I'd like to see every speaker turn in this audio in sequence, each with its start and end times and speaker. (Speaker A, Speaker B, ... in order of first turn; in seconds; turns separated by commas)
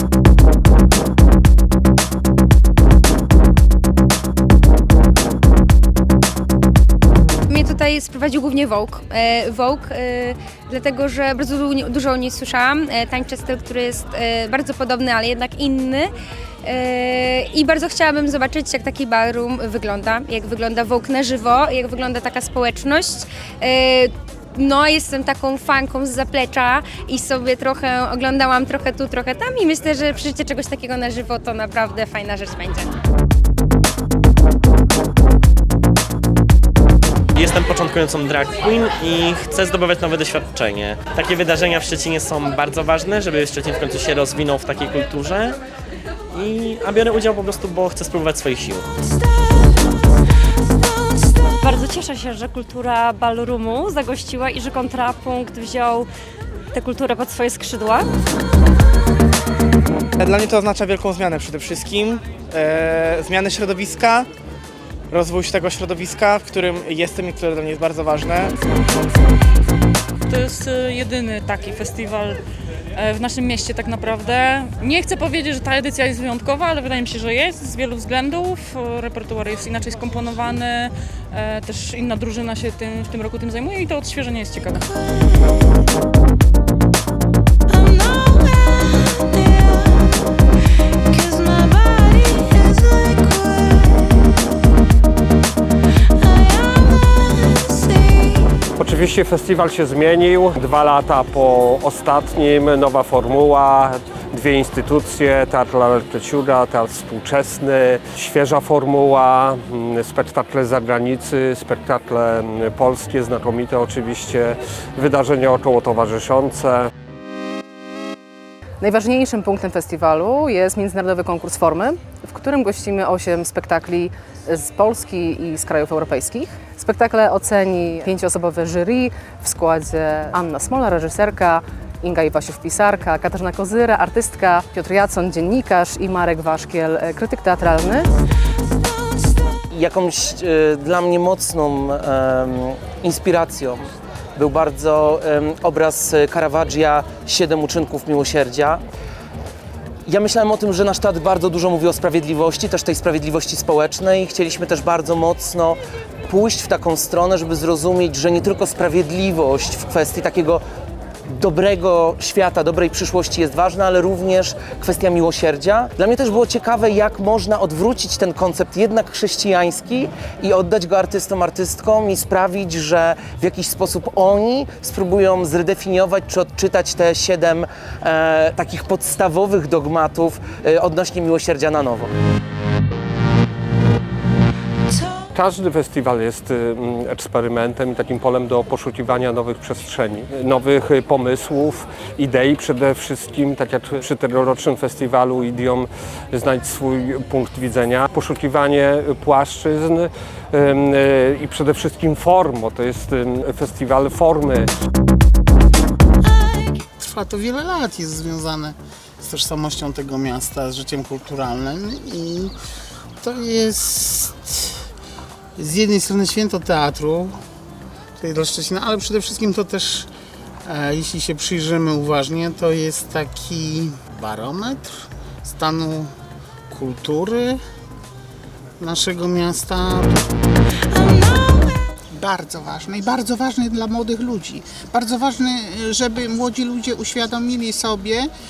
Speaker A: 7.5-33.0, Speaker B: 37.3-45.6, Speaker B: 46.3-48.9, Speaker C: 51.6-56.1, Speaker C: 56.7-58.1, Speaker D: 60.2-64.3, Speaker D: 65.1-68.5, Speaker E: 70.3-72.4, Speaker E: 72.9-84.9, Speaker F: 98.8-116.9, Speaker G: 118.8-138.1, Speaker H: 139.7-148.8, Speaker H: 150.1-160.6, Speaker H: 161.3-182.1, Speaker F: 185.3-204.7, Speaker I: 207.0-212.5, Speaker I: 213.2-214.7, Speaker I: 215.6-217.3, Speaker I: 218.2-220.1, Speaker I: 220.6-226.1, Speaker I: 226.7-227.6, Speaker I: 228.8-230.2, Speaker J: 232.1-238.3